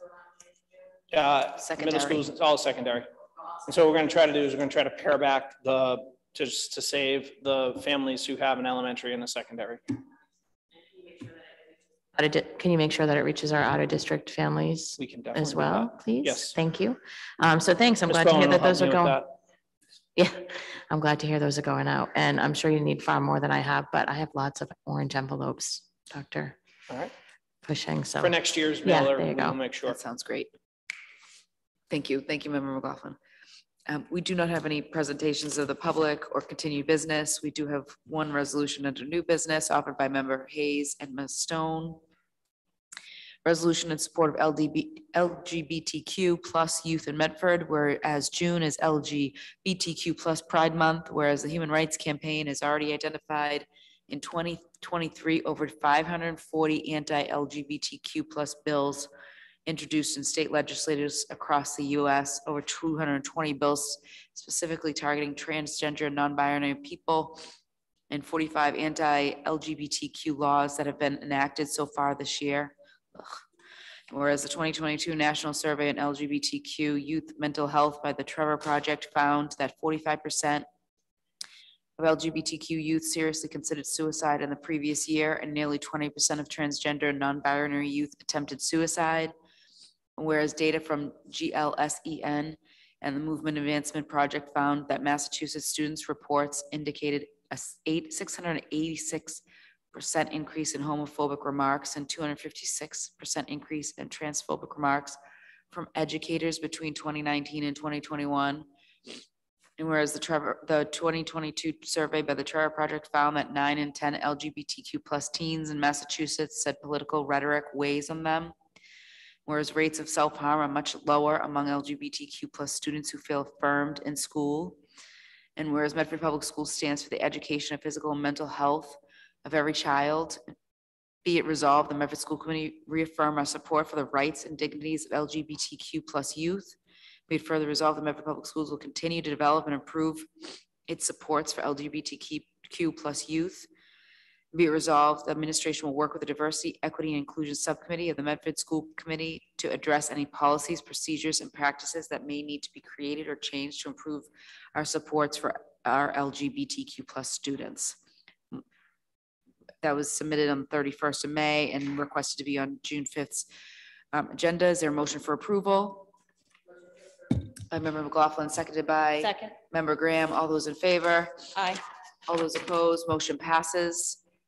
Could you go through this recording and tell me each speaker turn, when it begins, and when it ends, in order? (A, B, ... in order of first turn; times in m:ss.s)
0:01.1-0:03.1 A
0:01.6-0:02.2 B
0:03.6-0:09.8 A
0:12.1-0:19.2 C
0:15.0-0:16.6 A
0:18.0-0:19.3 A
0:20.2-0:26.6 C
0:27.6-0:29.6 C
0:28.2-0:30.0 A
0:29.8-0:30.5 B
0:31.9-0:33.2 B
0:33.9-0:42.0 B
0:43.4-0:59.1 B
0:59.6-1:07.4 B
1:08.1-1:13.3 B
1:14.1-1:20.6 B
1:22.0-1:29.3 B
1:30.2-1:39.4 B
1:39.9-1:45.2 B
1:45.7-1:48.6 B
1:49.8-1:58.5 B
1:59.4-2:04.8 B
2:05.6-2:10.4 B
2:11.2-2:16.7 B
2:17.3-2:20.3 B
2:20.9-2:23.7 B
2:24.5-2:38.0 B
2:39.8-2:43.5 B
2:44.1-2:46.1 B
2:47.7-2:51.5 B
2:52.3-2:54.2 B